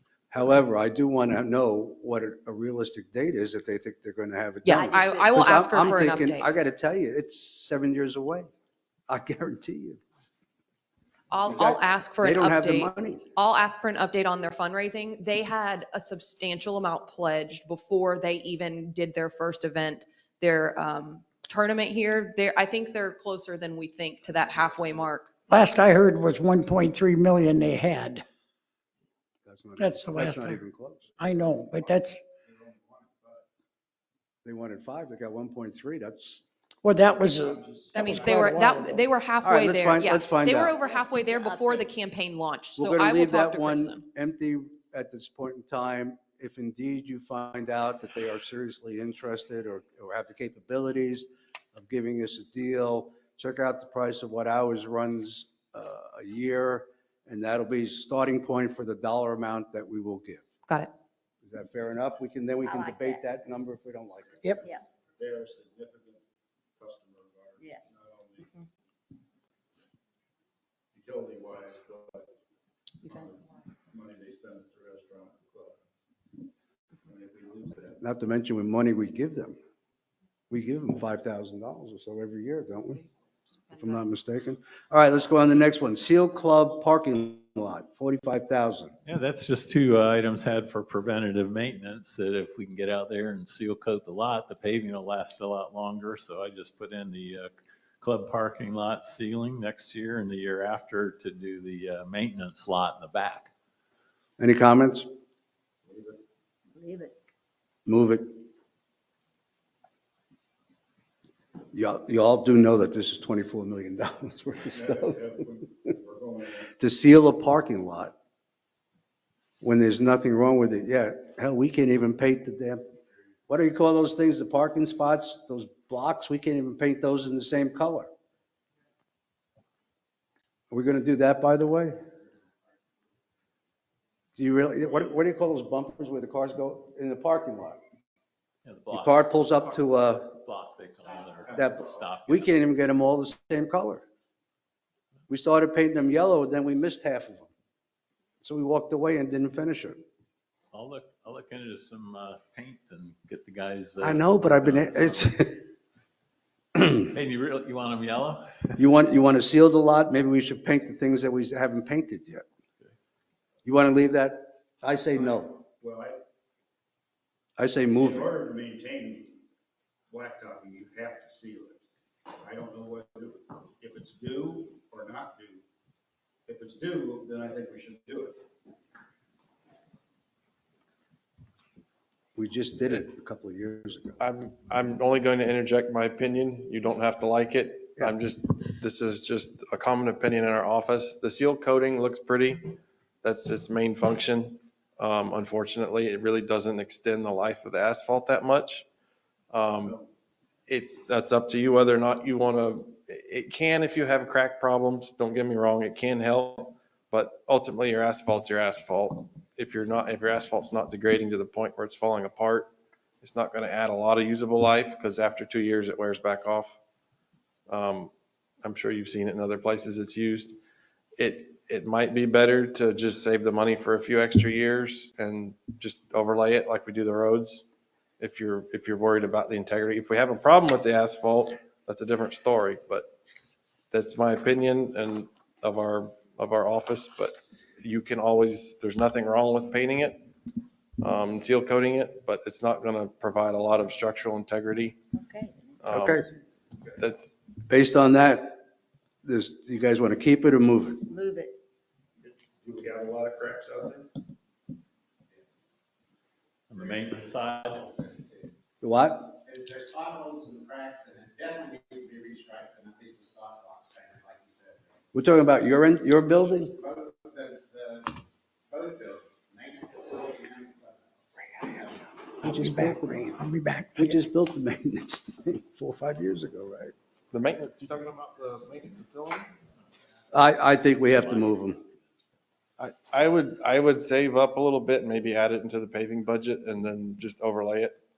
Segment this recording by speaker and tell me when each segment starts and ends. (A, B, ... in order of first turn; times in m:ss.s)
0:00.3-0:08.5 A
0:04.6-0:06.5 B
0:04.7-0:05.3 C
0:09.1-0:10.0 A
0:11.3-0:25.3 B
0:11.5-0:13.3 A
0:25.5-0:28.2 D
0:29.4-0:31.1 A
0:29.8-0:30.6 D
0:31.2-0:32.2 D
0:32.4-0:33.4 E
0:34.4-0:36.4 A
0:36.8-0:39.0 D
0:37.2-0:38.5 E
0:37.9-0:44.0 B
0:39.4-0:40.8 A
0:40.8-0:41.9 C
0:42.8-1:00.4 A
1:01.4-1:04.5 A
1:02.6-1:03.2 C
1:04.6-1:04.8 C
1:05.2-1:06.2 E
1:06.8-1:08.6 E
1:07.6-1:08.0 C
1:10.9-1:12.3 E
1:13.0-1:15.8 E
1:17.0-1:18.0 E
1:18.0-1:19.6 A
1:20.5-1:23.0 A
1:23.7-1:28.9 A
1:29.0-1:43.5 F
1:44.4-1:45.1 A
1:45.9-1:46.2 E
1:46.7-1:47.1 C
1:47.8-1:48.4 A
1:51.7-1:55.3 A
1:54.7-1:56.7 E
1:56.7-1:58.1 A
1:59.6-2:02.8 A
2:03.5-2:08.1 A
2:10.7-2:12.0 A
2:14.4-2:17.8 A
2:18.6-2:22.6 F
2:18.9-2:20.4 A
2:21.6-2:24.0 A
2:25.3-2:27.5 A
2:28.4-2:30.0 A
2:30.7-2:35.4 F
2:34.0-2:35.6 A
2:36.8-2:38.8 F
2:38.8-2:42.4 A
2:43.6-2:45.5 A
2:45.2-2:46.2 E
2:47.6-2:48.3 A
2:47.9-2:49.4 E
2:50.1-2:51.8 E
2:52.4-2:55.6 E
2:56.4-2:58.4 E
3:02.4-3:04.2 A
3:04.2-3:18.8 G
3:19.5-3:20.0 G
3:20.7-3:36.8 G
3:37.7-3:38.1 G
3:38.6-3:40.6 G
3:41.2-3:47.6 G
3:48.2-3:53.1 G
3:53.9-4:00.3 G
4:01.0-4:05.0 G
4:05.1-4:05.7 C
4:05.8-4:06.2 G
4:05.9-4:06.2 A
4:07.0-4:07.4 G
4:07.7-4:08.6 A
4:09.2-4:11.1 A
4:11.1-4:11.6 C
4:12.2-4:14.1 E
4:16.7-4:17.9 F
4:18.8-4:19.4 A
4:19.4-4:24.8 H
4:25.1-4:26.8 A
4:26.8-4:28.2 H
4:28.7-4:31.3 H
4:31.5-4:33.4 A
4:32.4-4:34.1 D
4:34.0-4:36.9 A
4:37.3-4:39.5 G
4:40.3-4:41.8 A
4:42.8-4:48.0 G